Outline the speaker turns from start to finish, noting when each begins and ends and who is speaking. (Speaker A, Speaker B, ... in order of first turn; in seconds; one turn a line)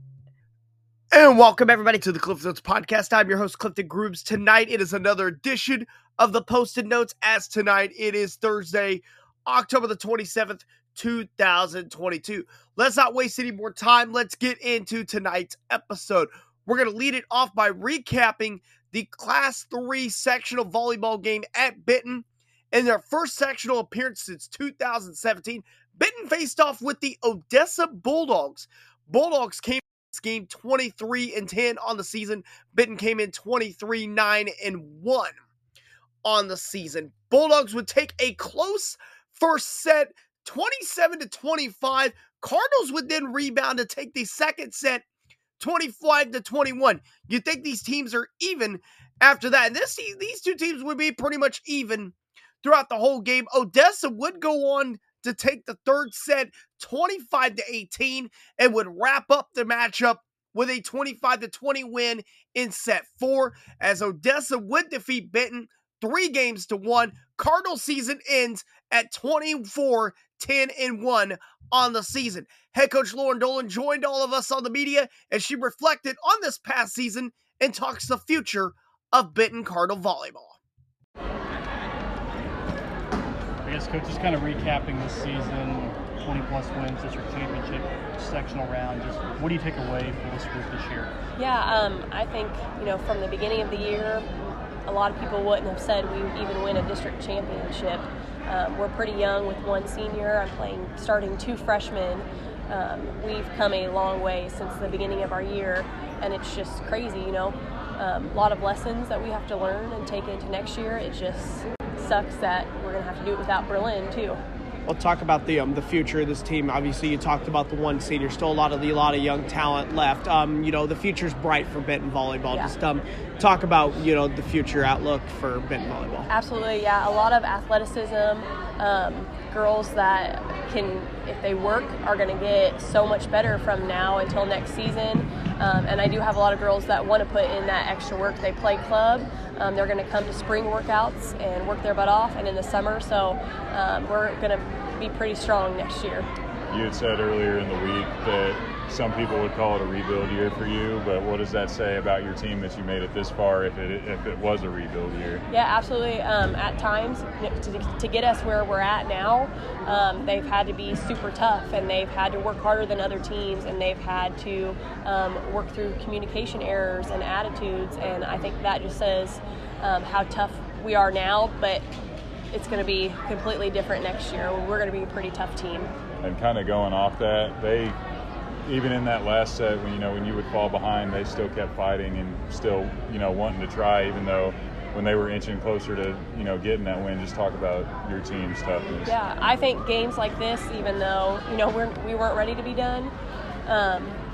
Speaker A: 1.1-35.4
Speaker A: 36.2-45.0
Speaker A: 45.6-80.6
Speaker B: 83.6-91.1
Speaker C: 91.4-94.3
Speaker C: 94.9-114.4
Speaker A: 114.9-126.3
Speaker C: 126.3-146.3
Speaker D: 146.7-155.4
Speaker C: 155.5-171.9
Speaker C: 172.5-175.9
Speaker D: 176.2-178.0
Speaker D: 178.7-189.2
Speaker C: 189.1-193.1
Speaker C: 193.7-194.2